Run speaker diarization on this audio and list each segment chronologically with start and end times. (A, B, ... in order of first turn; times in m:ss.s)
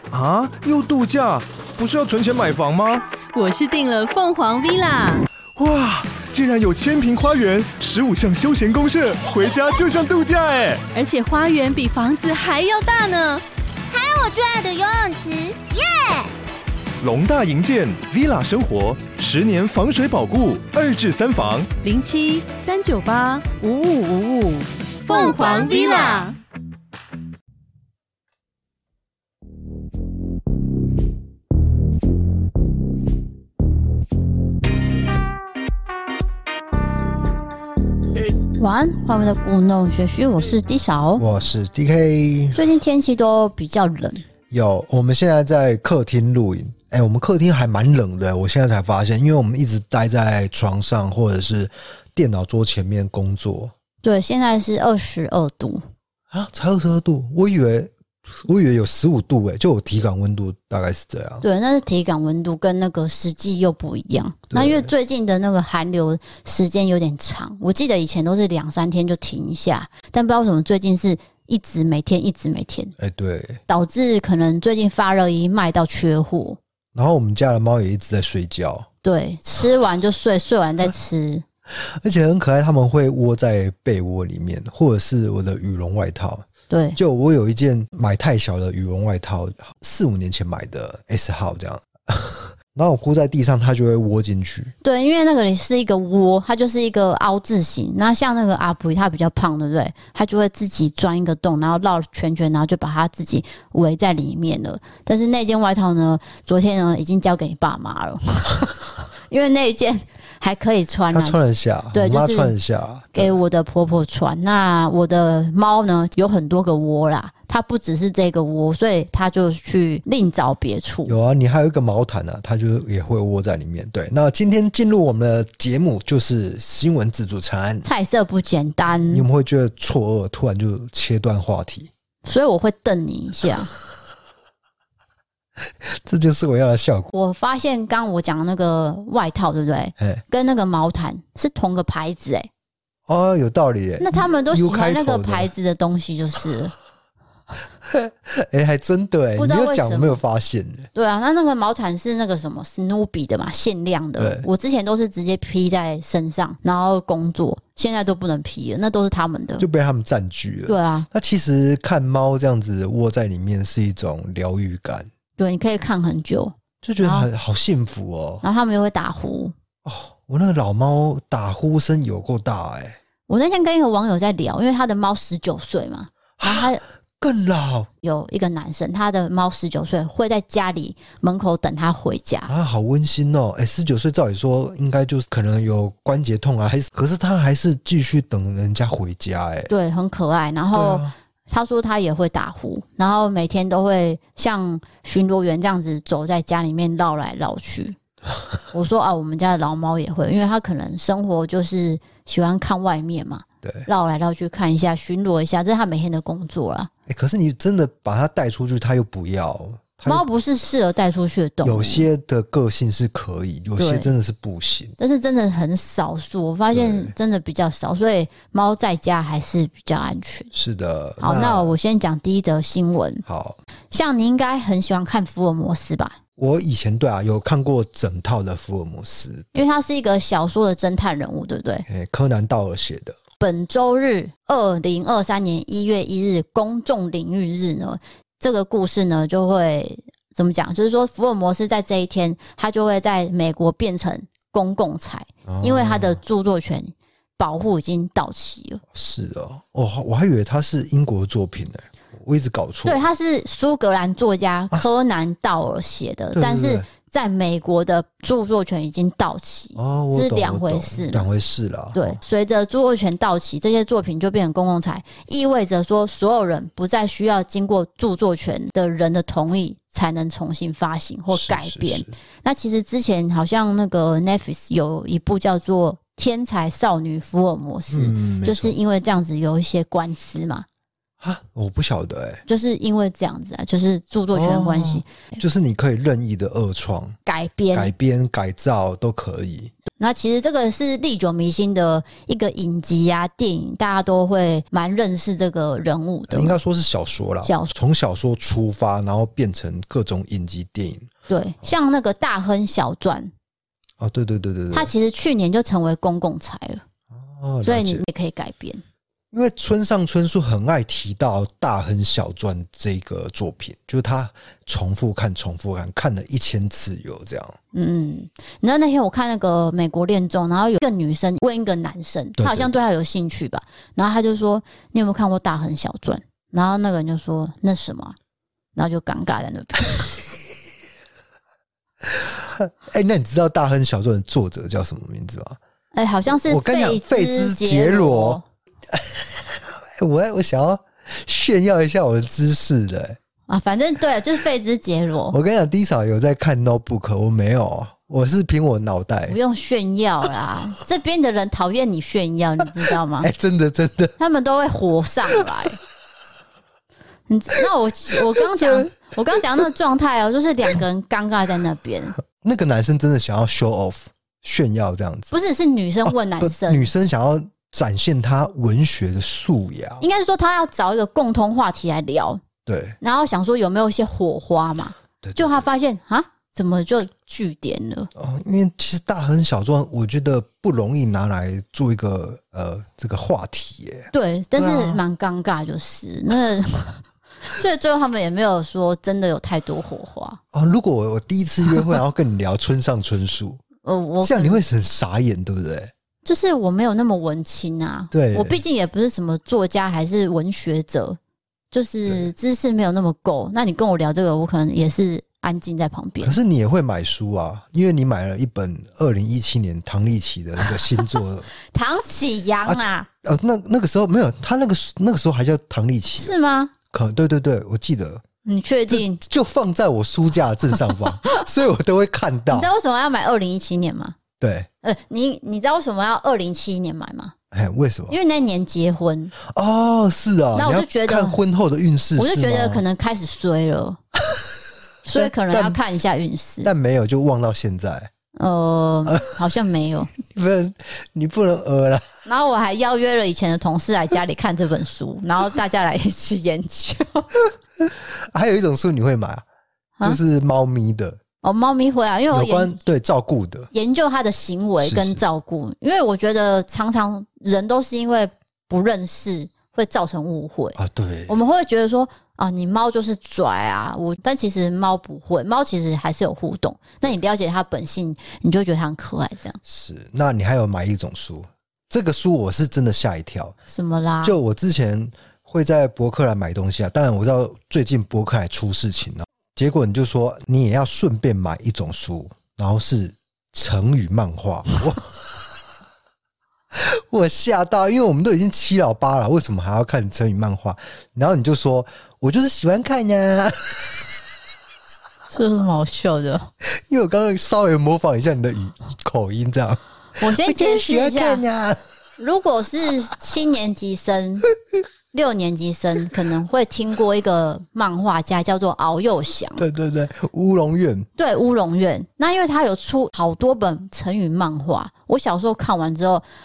0:00.1-0:03.0 A
0:03.3-0:05.2 B
0:05.6-0:10.8 A
0:10.9-0:13.4 B
0:13.9-0:16.3 C
0:17.0-0:21.7 A
0:21.8-0:26.4 B
0:25.1-0:26.3 C
0:38.6-0:41.2 D
0:41.2-0:42.6 E
0:42.6-0:44.2 D
0:44.5-0:53.7 E
0:54.0-0:55.8 D
0:56.3-1:01.4 E
1:01.4-1:12.9 D
1:04.5-1:04.9 E
1:13.0-1:13.6 E
1:13.7-1:16.6 D
1:16.9-1:18.9 E
1:19.0-1:21.4 D
1:21.7-1:34.7 E
1:26.7-1:27.0 D
1:34.8-1:51.4 D
1:51.1-1:53.4 E
1:51.9-1:52.6 D
1:53.1-2:01.2 D
2:01.1-2:07.9 E
2:07.8-2:09.3 D
2:09.1-2:11.9 E
2:12.2-2:13.7 D
2:15.8-2:17.1 E
2:17.1-2:22.5 D
2:20.0-2:20.2 E
2:23.1-2:25.5 E
2:24.0-2:26.7 D
2:27.8-2:30.9 E
2:29.4-2:30.2 D
2:31.0-2:39.6 D
2:34.2-2:34.5 E
2:39.6-2:45.1 E
2:40.7-2:41.1 D
2:45.4-2:47.3 D
2:46.8-2:48.4 E
2:48.4-2:49.5 D
2:49.8-2:53.0 E
2:53.3-2:56.8 D
2:56.4-2:57.9 E
2:58.0-3:02.5 D
3:02.5-3:09.7 E
3:09.7-3:18.0 D
3:10.7-3:11.2 E
3:18.7-3:26.9 D
3:23.6-3:23.9 E
3:27.1-3:30.2 E
3:30.1-3:32.1 D
3:31.6-3:35.0 E
3:33.8-3:34.1 D
3:35.0-3:40.5 D
3:36.7-3:37.1 E
3:40.5-3:41.7 E
3:41.2-3:43.2 D
3:43.3-3:43.6 E
3:43.9-3:46.2 D
3:46.4-3:49.5 E
3:49.5-3:51.8 D
3:51.9-3:53.2 E
3:53.4-4:08.8 D
4:05.5-4:06.2 E
4:08.9-4:13.0 E
4:12.8-4:21.3 D
4:16.4-4:16.9 E
4:19.8-4:22.2 E
4:22.0-4:40.7 D
4:31.3-4:32.1 E
4:37.9-4:38.8 E
4:41.2-4:42.4 E
4:42.5-4:45.4 D
4:44.3-4:47.2 E
4:47.3-4:47.9 D
4:47.7-4:49.8 E
4:50.0-4:56.6 D
4:56.3-5:01.1 E
4:57.4-4:57.7 D
5:01.3-5:03.3 D
5:04.0-5:04.9 E
5:04.7-5:06.8 D
5:07.1-5:08.0 E
5:07.6-5:08.8 D
5:09.3-5:17.6 E
5:17.7-5:28.2 D
5:22.4-5:22.7 E
5:28.8-5:30.1 D
5:32.0-5:35.6 E
5:35.9-5:38.4 D
5:36.3-5:38.4 E
5:38.9-5:43.2 E
5:43.5-5:45.4 D
5:45.3-5:49.4 E
5:49.3-5:53.3 D
5:53.2-5:54.2 E
5:54.2-5:55.8 D
5:57.3-6:02.2 D
5:58.1-5:59.4 E
6:02.3-6:05.3 E
6:05.3-6:06.9 D
6:06.1-6:10.0 E
6:10.0-6:12.4 D
6:12.7-6:13.0 E
6:13.0-6:18.1 D
6:15.2-6:15.7 E
6:18.2-6:25.0 E
6:24.1-6:30.4 D
6:30.5-6:33.6 E
6:33.8-6:34.6 D
6:34.2-6:35.9 E
6:36.2-6:41.2 D
6:38.1-6:38.6 E
6:41.7-6:46.4 D
6:46.2-6:51.5 E
6:51.7-6:53.1 D
6:52.6-6:56.3 E
6:56.2-6:56.7 D
6:56.9-6:58.2 E
6:58.4-6:59.2 D
6:58.9-7:02.7 E
7:02.5-7:04.2 D
7:04.4-7:04.7 E
7:04.8-7:07.3 D
7:07.5-7:08.2 E
7:08.1-7:09.3 D
7:09.4-7:12.8 E
7:10.6-7:11.4 D
7:12.2-7:14.0 D
7:15.0-7:16.7 D
7:15.1-7:15.8 E
7:16.6-7:18.1 E
7:18.4-7:20.1 D
7:19.1-7:19.4 E
7:20.2-7:22.2 E
7:22.2-7:27.3 D
7:27.8-7:29.4 E
7:30.0-7:31.2 E
7:31.4-7:32.7 D
7:32.3-7:33.7 E
7:33.7-7:49.6 D
7:34.8-7:35.2 E
7:40.8-7:41.4 E
7:49.6-7:53.6 E
7:53.7-7:54.4 D
7:54.2-8:05.4 E
8:06.7-8:14.1 E
8:15.3-8:16.5 D
8:16.6-8:21.8 E
8:20.2-8:21.4 D
8:22.2-8:24.5 D
8:25.1-8:29.7 D
8:29.6-8:31.1 E
8:31.2-8:36.2 D